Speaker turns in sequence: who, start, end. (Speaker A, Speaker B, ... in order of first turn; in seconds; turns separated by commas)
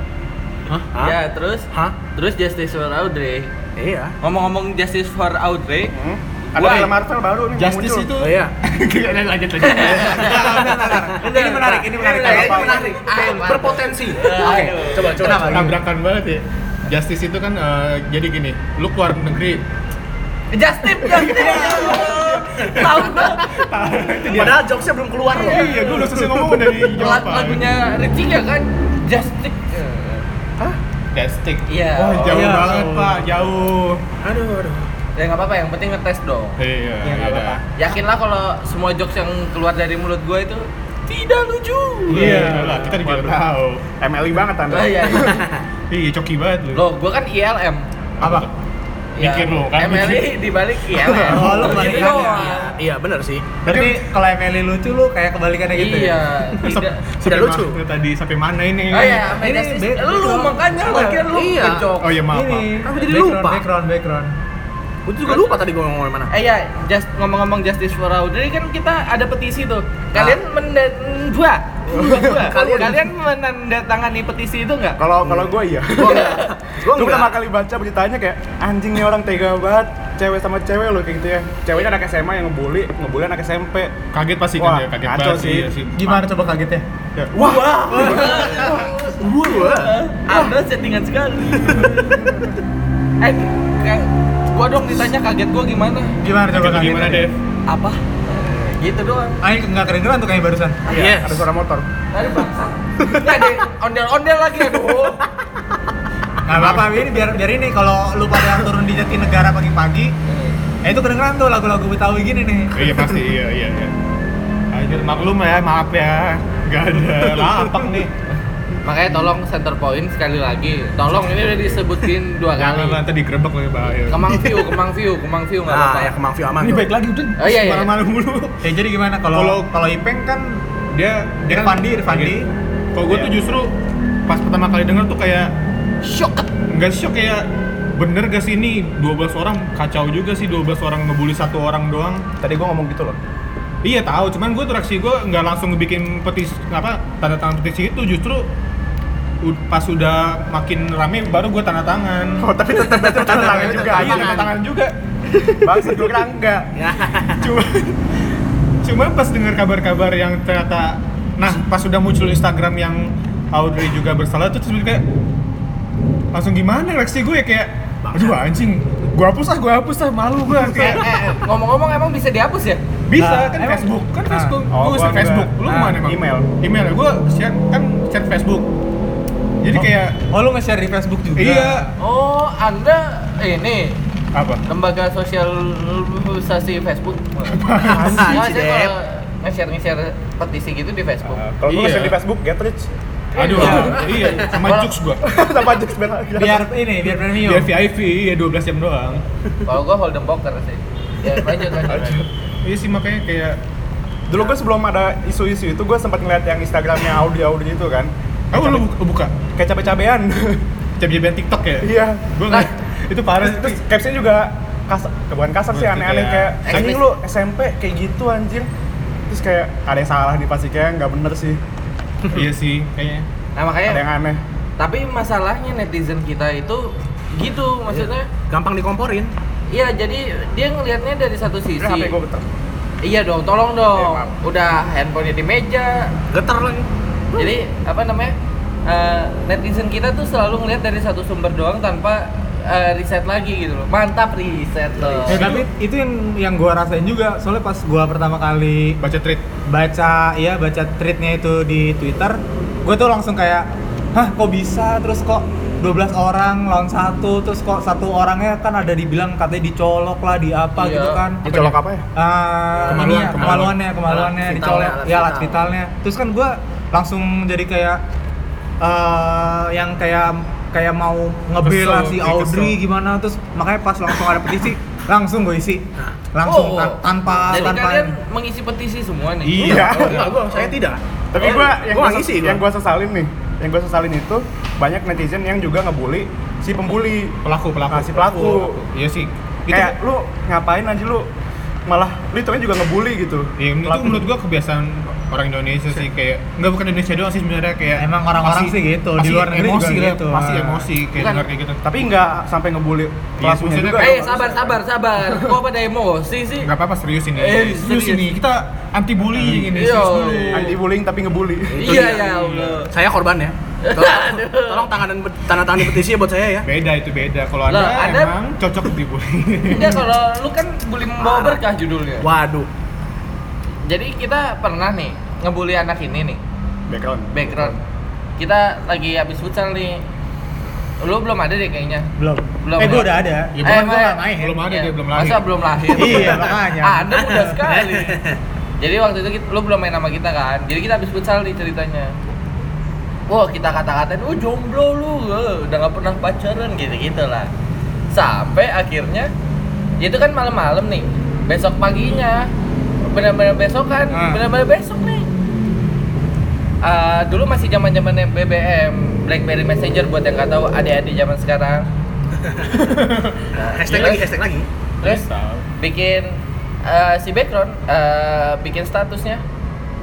Speaker A: 0.7-1.2, Speaker B: 0.9-3.5, Speaker A: 3.8-4.1, Speaker B: 4.2-5.9, Speaker C: 5.9-8.1, Speaker B: 6.5-6.9, Speaker D: 7.5-10.8, Speaker A: 8.2-8.5, Speaker B: 9.6-10.7, Speaker E: 10.1-12.9, Speaker B: 11.2-15.2, Speaker A: 11.4-15.7, Speaker E: 15.1-15.8, Speaker D: 15.5-19.6, Speaker B: 20.5-23.5, Speaker D: 21.1-24.6, Speaker A: 21.4-23.4, Speaker A: 24.0-26.9, Speaker D: 25.3-27.6, Speaker B: 25.4-25.8, Speaker B: 26.9-30.2, Speaker D: 31.1-34.0, Speaker B: 31.7-32.5, Speaker E: 32.2-33.2, Speaker A: 34.2-34.9, Speaker B: 35.1-36.5, Speaker D: 36.6-37.6, Speaker E: 37.0-37.6, Speaker B: 37.8-42.4, Speaker D: 42.1-43.9, Speaker E: 42.1-42.9, Speaker C: 42.6-43.4, Speaker C: 44.0-45.1, Speaker B: 44.7-45.5, Speaker A: 45.2-45.6, Speaker D: 45.9-46.8, Speaker B: 46.7-47.8, Speaker D: 48.2-48.5, Speaker E: 48.2-48.5, Speaker B: 49.2-52.7, Speaker D: 49.2-50.3, Speaker D: 50.9-51.9, Speaker E: 51.2-52.7, Speaker A: 51.8-53.5, Speaker D: 53.6-54.0, Speaker E: 53.6-56.2, Speaker B: 55.7-57.0, Speaker D: 56.6-59.4, Speaker A: 57.2-57.8, Speaker B: 58.9-62.2, Speaker E: 59.4-61.2, Speaker A: 61.0-61.9, Speaker D: 62.0-62.7, Speaker E: 62.3-64.3, Speaker A: 62.8-63.6, Speaker A: 65.0-66.3, Speaker B: 65.2-65.7, Speaker B: 66.3-75.0, Speaker A: 71.9-73.1, Speaker C: 75.0-84.0, Speaker A: 75.2-77.3, Speaker B: 76.0-76.5, Speaker D: 84.1-86.3, Speaker C: 84.6-85.7, Speaker E: 86.0-86.8, Speaker D: 87.2-87.5, Speaker C: 87.3-89.0, Speaker A: 87.7-90.0, Speaker B: 88.0-88.8, Speaker B: 89.5-92.3, Speaker A: 91.5-91.9, Speaker B: 93.2-96.1, Speaker E: 96.2-97.3, Speaker D: 96.5-97.3, Speaker B: 97.7-99.4, Speaker E: 99.4-100.8, Speaker A: 100.9-101.5, Speaker C: 100.9-101.8, Speaker B: 102.1-105.2, Speaker A: 103.0-103.3, Speaker E: 106.4-110.1, Speaker D: 106.5-107.0, Speaker B: 110.3-110.5, Speaker E: 110.8-113.0, Speaker D: 112.7-113.9, Speaker D: 114.7-118.1, Speaker B: 118.8-123.0, Speaker D: 122.5-124.4, Speaker B: 124.1-126.2, Speaker A: 125.7-126.9, Speaker D: 126.6-128.6, Speaker B: 127.4-127.9, Speaker E: 128.6-130.6, Speaker D: 129.3-129.7, Speaker D: 130.9-132.4, Speaker E: 131.5-132.5, Speaker D: 132.9-133.7, Speaker D: 134.3-135.5, Speaker B: 136.0-136.5, Speaker D: 136.7-142.2, Speaker C: 142.4-143.2, Speaker D: 143.8-148.5, Speaker D: 149.4-152.5, Speaker C: 152.4-154.5, Speaker A: 152.7-154.5, Speaker D: 153.2-154.9, Speaker A: 155.4-155.9, Speaker C: 155.6-156.7, Speaker A: 156.8-157.5, Speaker D: 157.4-157.9, Speaker D: 158.8-165.0, Speaker D: 166.3-171.2, Speaker A: 168.0-168.4, Speaker B: 170.7-172.8, Speaker D: 173.1-178.7, Speaker E: 173.2-174.6, Speaker C: 174.7-176.5, Speaker E: 175.7-176.0, Speaker D: 179.6-180.2, Speaker E: 179.7-181.9, Speaker D: 181.4-181.9, Speaker B: 182.0-184.0, Speaker D: 184.3-184.6, Speaker B: 184.7-191.4, Speaker D: 187.4-188.4, Speaker A: 187.8-188.9, Speaker C: 191.3-192.9, Speaker D: 191.7-192.2, Speaker D: 193.3-195.2, Speaker A: 193.5-194.4, Speaker C: 193.5-193.9, Speaker B: 193.5-194.9, Speaker E: 193.6-193.9, Speaker C: 195.2-196.7, Speaker E: 196.4-197.7, Speaker D: 197.2-199.2, Speaker B: 199.6-202.2, Speaker C: 201.9-202.2, Speaker D: 202.6-203.6, Speaker C: 204.3-208.8, Speaker D: 208.5-209.3, Speaker C: 209.5-210.6, Speaker D: 211.0-213.8, Speaker C: 211.8-212.3, Speaker C: 213.4-218.7, Speaker D: 215.7-216.9, Speaker B: 216.7-217.0, Speaker C: 219.3-221.6, Speaker D: 222.3-223.2, Speaker B: 223.6-224.0, Speaker C: 223.9-224.4, Speaker B: 224.8-228.3, Speaker A: 227.9-229.3, Speaker B: 229.7-232.1, Speaker C: 231.8-232.4, Speaker B: 233.0-236.1, Speaker C: 234.0-234.3, Speaker A: 236.3-237.5, Speaker B: 237.3-238.3, Speaker B: 238.8-245.4, Speaker D: 245.3-245.7, Speaker E: 245.3-249.0, Speaker D: 249.0-249.4, Speaker E: 249.7-261.5, Speaker B: 260.8-261.2, Speaker C: 261.4-262.0, Speaker E: 262.1-268.0, Speaker D: 262.9-263.8, Speaker A: 264.0-265.6, Speaker E: 268.8-278.1, Speaker D: 271.6-272.8, Speaker B: 276.4-280.7, Speaker D: 279.4-280.3, Speaker C: 279.6-280.3, Speaker A: 279.6-282.6, Speaker C: 281.3-287.4, Speaker D: 287.4-289.9, Speaker C: 287.9-288.8, Speaker C: 289.7-291.3, Speaker C: 291.9-294.2, Speaker D: 293.6-301.8, Speaker E: 298.0-300.9, Speaker B: 301.2-301.4, Speaker C: 301.8-304.7, Speaker D: 303.4-304.3, Speaker B: 304.0-306.7, Speaker D: 306.6-310.8, Speaker B: 307.4-308.3, Speaker B: 309.5-310.7, Speaker C: 310.5-312.0, Speaker A: 311.7-316.7, Speaker B: 311.8-312.9, Speaker D: 312.0-312.8, Speaker B: 313.8-314.9, Speaker D: 316.6-320.0, Speaker B: 317.7-318.3, Speaker B: 319.7-322.3, Speaker A: 321.2-321.6, Speaker A: 322.2-322.7, Speaker B: 323.9-326.4, Speaker C: 326.9-327.3, Speaker B: 327.3-327.8, Speaker B: 328.4-330.0, Speaker B: 331.0-332.1, Speaker E: 332.2-334.6, Speaker B: 332.6-338.2, Speaker D: 333.5-336.2, Speaker E: 335.9-337.4, Speaker A: 336.0-336.5, Speaker A: 337.1-338.4, Speaker B: 338.8-342.1, Speaker B: 343.3-347.5, Speaker B: 348.1-349.3, Speaker B: 350.0-352.5, Speaker B: 353.1-355.2, Speaker E: 354.1-354.4, Speaker B: 356.8-361.9, Speaker A: 362.4-362.7, Speaker D: 362.7-363.5, Speaker A: 363.5-364.7, Speaker B: 363.6-364.3, Speaker D: 365.0-365.6, Speaker B: 365.8-369.4